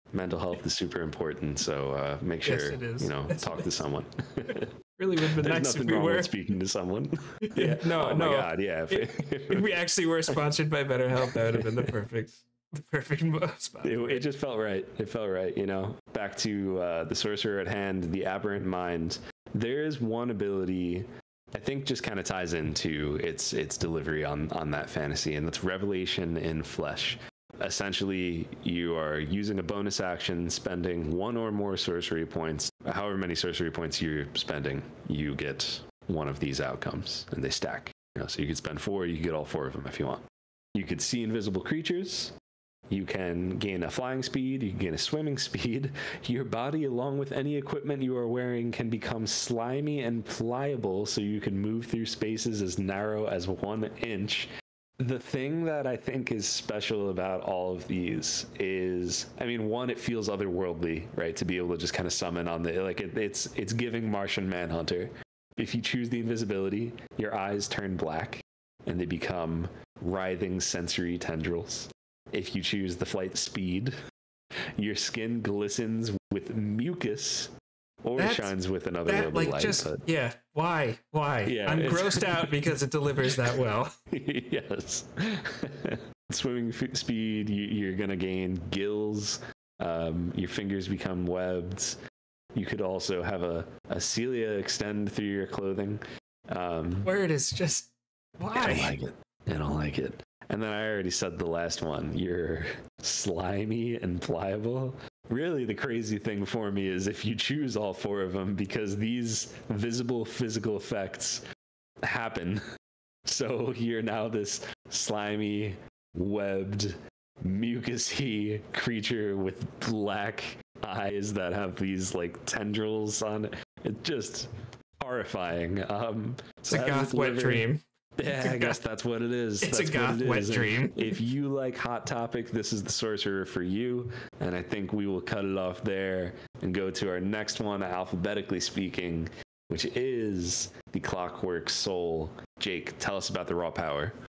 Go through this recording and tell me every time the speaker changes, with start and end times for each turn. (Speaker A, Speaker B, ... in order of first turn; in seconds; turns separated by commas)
Speaker A: 0.1-4.7, Speaker B: 2.4-3.8, Speaker B: 5.0-6.3, Speaker A: 5.2-9.7, Speaker B: 7.5-14.2, Speaker A: 11.2-11.9, Speaker A: 13.8-42.3, Speaker A: 42.9-73.9, Speaker A: 74.8-77.5, Speaker A: 78.0-80.0, Speaker B: 78.2-78.5, Speaker B: 79.0-83.9, Speaker A: 81.5-82.5, Speaker A: 84.1-92.0, Speaker A: 92.5-97.1, Speaker B: 97.0-99.0, Speaker A: 98.5-111.4, Speaker A: 112.0-112.6, Speaker A: 113.2-124.5, Speaker A: 125.0-127.6, Speaker B: 126.7-128.8, Speaker A: 128.2-144.1, Speaker B: 129.6-131.2